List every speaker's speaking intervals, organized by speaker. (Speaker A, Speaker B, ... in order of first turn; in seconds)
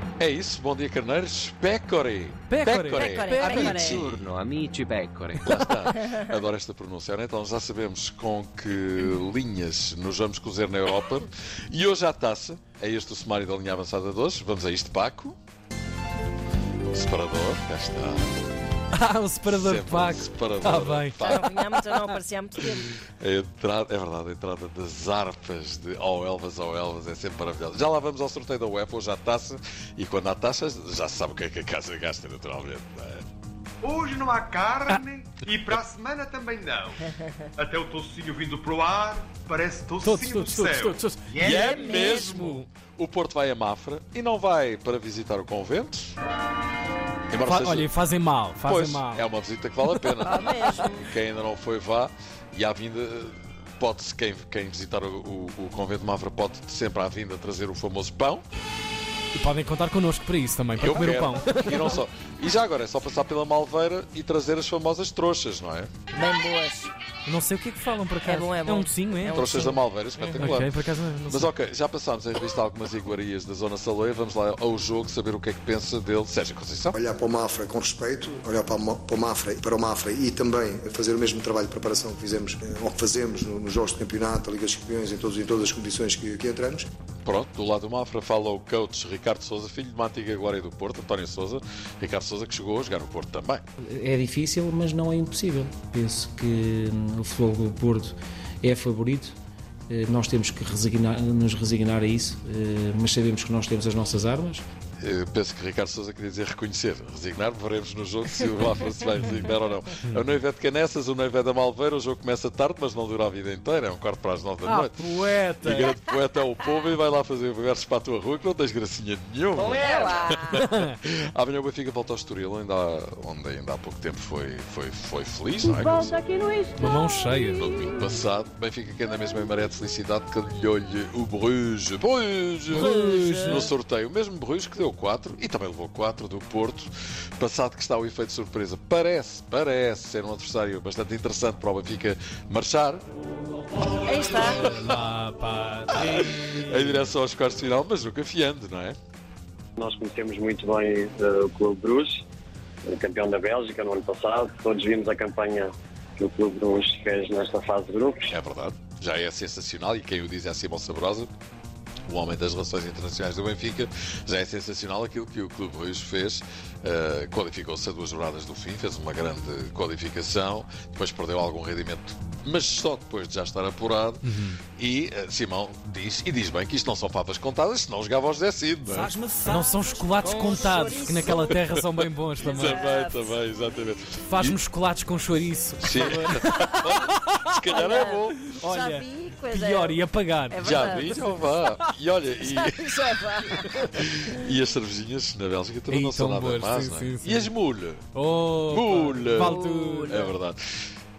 Speaker A: 0.2-3.3, 3.8-4.2, 5.4-15.4, 16.9-18.4, 19.5-21.5, 23.2-33.3, 41.5-46.1, 47.3-47.9, 48.6-50.4, 51.1-58.5, 60.8-65.9, 69.3-70.7, 71.3-77.0, 87.2-93.6, 105.0-126.2, 127.5-132.9, 133.4-143.0, 144.6-144.9, 145.9-149.0, 158.3-161.3, 162.1-179.1, 181.4-181.8, 182.5-184.6, 185.8-188.4, 190.6-192.8, 193.9-198.1, 198.7-199.6, 200.1-200.6
Speaker B: 2.5-3.9, 18.9-21.4, 40.0-42.7, 47.3-49.3, 49.9-50.3, 59.3-62.0, 67.3-69.5, 70.4-71.5, 114.6-115.9, 120.5-121.0, 126.8-127.7, 132.7-133.7, 144.1-147.1, 174.2-174.6, 179.4-182.8, 184.3-187.5, 188.5-190.8, 195.9-197.5, 198.1-200.2
Speaker C: 2.9-4.1, 21.1-22.9, 41.5-42.4, 50.2-51.1, 66.1-66.9, 68.2-70.5, 119.6-120.6, 132.9-133.6, 144.0-144.6, 180.2-181.6, 182.4-183.5, 187.7-194.5, 199.3-200.3
Speaker D: 3.3-5.9
Speaker E: 33.8-37.0, 37.6-42.6
Speaker F: 76.9-86.9
Speaker G: 93.9-99.4, 99.9-104.7, 179.1-180.0
Speaker H: 149.8-152.2, 152.9-158.3